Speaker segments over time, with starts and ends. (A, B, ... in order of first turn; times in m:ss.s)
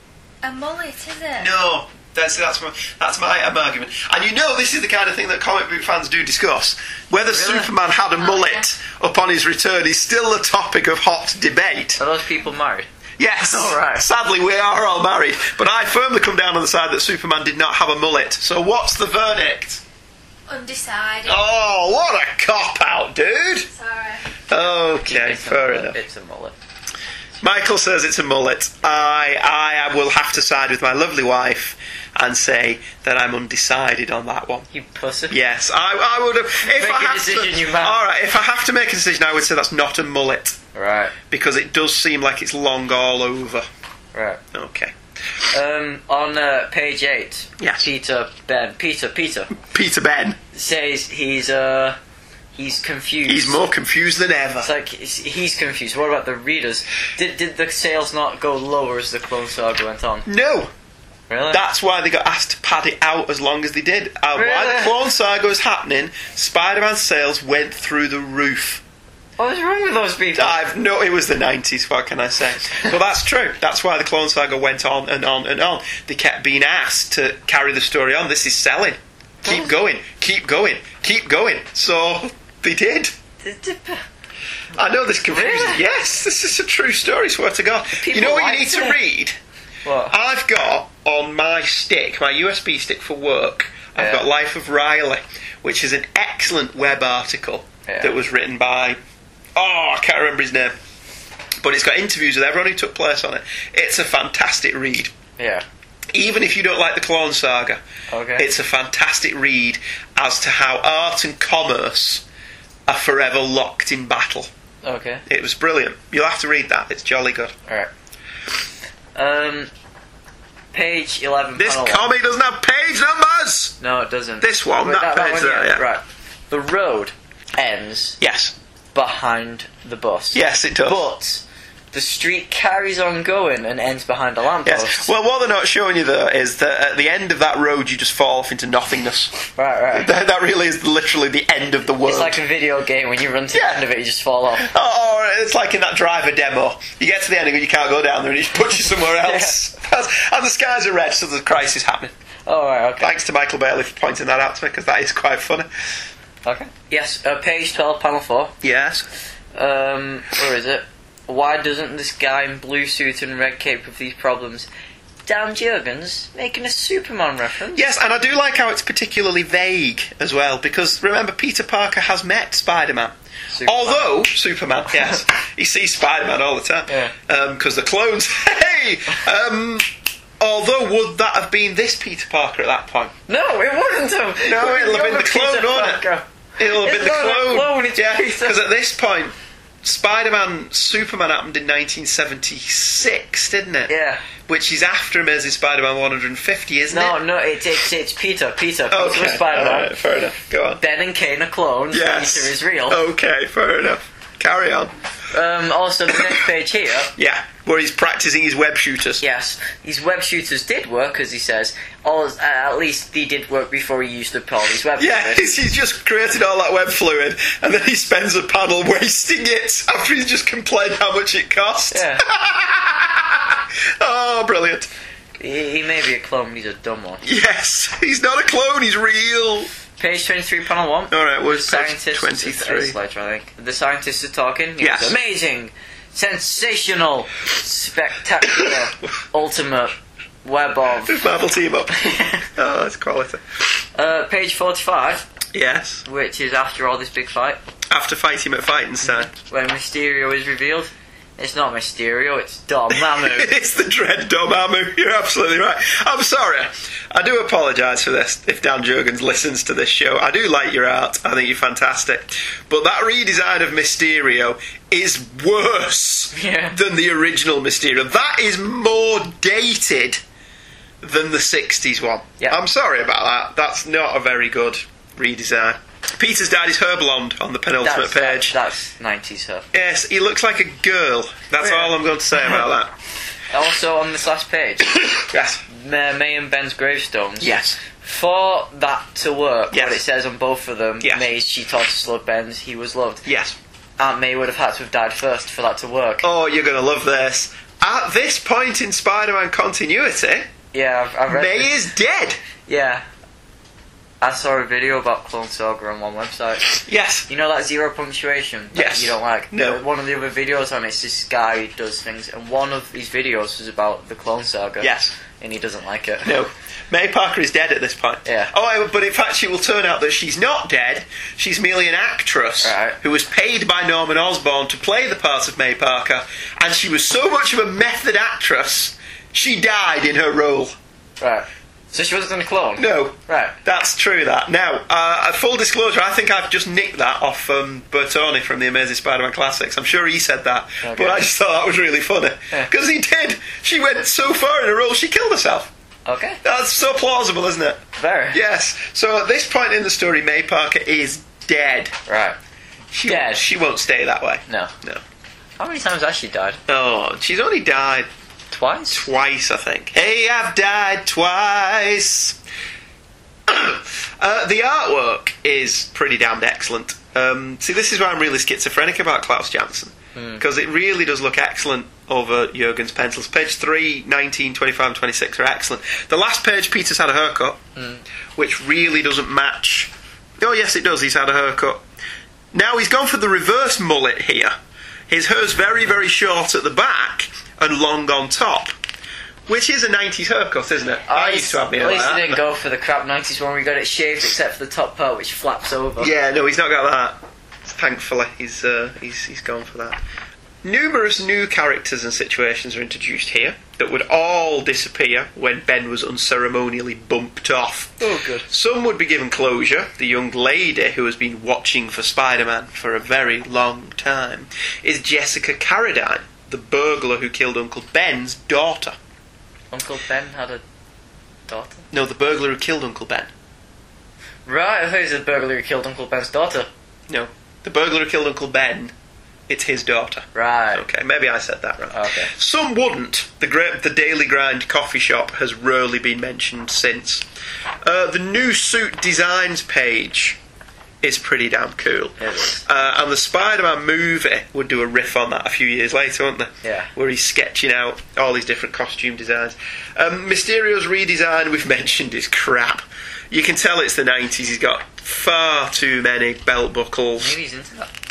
0:00.4-0:01.6 A
0:01.4-0:12.0 B
0:07.3-0:07.7 C
0:08.1-0:08.6 A
0:12.0-0:12.9 C
0:13.2-0:19.8 B
0:13.4-0:14.0 C
0:20.5-0:21.4 A
0:21.2-0:23.7 B
0:23.7-0:24.3 A
0:24.5-0:26.0 B
0:25.0-0:26.6 C
0:27.4-0:34.7 B
0:34.7-0:35.4 C
0:35.3-0:40.6 B
0:36.7-0:38.0 C
0:40.7-0:41.1 C
0:41.3-0:43.7 B
0:44.1-0:44.4 C
0:44.5-0:44.9 B
0:45.5-0:49.5 C
0:47.6-0:47.8 B
0:49.6-0:50.4 B
0:50.5-0:52.0 C
0:52.6-0:53.6 C
0:53.3-0:54.7 B
0:54.6-1:00.3 C
1:00.2-1:00.7 B
1:01.3-1:01.6 C
1:01.5-1:08.8 B
1:04.4-1:04.9 C
1:09.4-1:10.6 C
1:10.4-1:23.1 B
1:19.4-1:19.7 C
1:23.4-1:24.0 C
1:24.8-1:29.4 B
1:25.3-1:25.8 C
1:28.0-1:29.0 C
1:29.8-1:30.1 C
1:30.1-1:39.0 B
1:34.0-1:34.2 C
1:37.9-1:38.1 C
1:39.6-1:40.7 B
1:41.6-1:45.1 B
1:45.4-1:45.6 C
1:46.1-1:47.8 B
1:48.1-1:48.5 C
1:48.4-1:52.2 B
1:52.9-1:54.5 B
1:54.8-1:55.2 C
1:55.3-1:57.5 B
1:59.1-1:59.7 C
2:00.7-2:02.1 C
2:01.6-2:03.8 B
2:03.8-2:08.2 C
2:04.4-2:05.8 B
2:08.2-2:08.5 B
2:08.9-2:15.1 C
2:10.3-2:11.1 B
2:14.6-2:19.4 B
2:19.6-2:20.1 C
2:19.9-2:22.4 B
2:22.0-2:24.7 C
2:23.5-2:23.8 B
2:24.6-2:32.1 B
2:29.2-2:29.5 C
2:32.5-2:33.1 C
2:33.0-2:35.7 B
2:36.4-2:38.5 C
2:38.6-2:39.0 B
2:39.5-2:44.7 C
2:45.2-2:47.9 C
2:47.7-2:59.8 B
2:53.5-2:54.1 C
2:56.9-2:57.1 C
3:00.4-3:03.2 B
3:03.3-3:08.6 C
3:04.4-3:06.0 B
3:06.6-3:13.9 B
3:13.9-3:14.2 C
3:14.5-3:17.2 B
3:16.9-3:19.9 C
3:18.9-3:20.8 B
3:20.8-3:23.0 C
3:21.9-3:24.9 B
3:25.3-3:27.1 C
3:27.2-3:29.2 B
3:29.2-3:35.5 C
3:35.0-3:44.9 B
3:41.9-3:42.2 C
3:45.4-3:47.2 C
3:47.2-3:49.7 B
3:50.0-4:01.2 C
3:51.1-3:53.0 B
3:54.8-3:55.1 B
3:58.4-3:59.0 B
4:01.1-4:03.4 B
4:02.0-4:02.4 C
4:03.9-4:05.2 C
4:05.5-4:06.0 B
4:06.0-4:07.6 C
4:07.9-4:09.3 B
4:09.0-4:13.5 C
4:12.9-4:30.2 B
4:26.3-4:26.8 C
4:31.0-4:38.5 B
4:37.8-4:39.6 C
4:39.7-4:42.9 B
4:41.6-4:42.6 C
4:43.5-4:45.1 C
4:45.1-4:45.6 B
4:45.7-4:53.2 C
4:47.4-4:47.8 B
4:49.7-4:50.0 B
4:51.0-4:51.3 B
4:53.2-4:53.6 B
4:54.0-4:56.3 C
4:56.2-5:00.5 B
5:00.7-5:01.7 C
5:01.3-5:02.4 B
5:02.7-5:03.0 C
5:04.2-5:16.3 C
5:06.7-5:07.3 B
5:08.7-5:09.8 B
5:14.8-5:15.1 B
5:16.2-5:30.7 B
5:22.6-5:23.0 C
5:31.2-5:33.6 C
5:32.8-5:45.7 B
5:40.8-5:41.2 C
5:46.0-5:46.4 C
5:46.4-5:47.8 B
5:48.0-5:48.4 C
5:48.3-5:52.0 B
5:52.1-5:52.4 C
5:52.9-5:55.0 B
5:53.0-5:53.4 C
5:55.6-5:56.6 C
5:56.7-5:58.1 B
5:58.5-5:59.0 C
5:58.9-6:02.4 B
6:03.5-6:17.6 B
6:10.2-6:10.4 C
6:17.8-6:18.0 C
6:18.4-6:21.8 B
6:22.5-6:24.6 B
6:25.1-6:28.7 B
6:29.5-6:32.4 B
6:31.1-6:36.1 C
6:36.0-6:40.0 B
6:40.6-6:59.0 B
6:48.0-6:48.4 C
6:59.7-7:00.6 C
7:01.5-7:01.8 C
7:01.9-7:03.3 B
7:04.4-7:06.7 C
7:07.1-7:08.9 B
7:09.5-7:17.2 B
7:10.3-7:10.8 C
7:11.9-7:12.3 C
7:17.8-7:20.4 B
7:21.0-7:37.3 B
7:22.2-7:22.6 C
7:26.6-7:26.9 C
7:37.2-7:37.9 C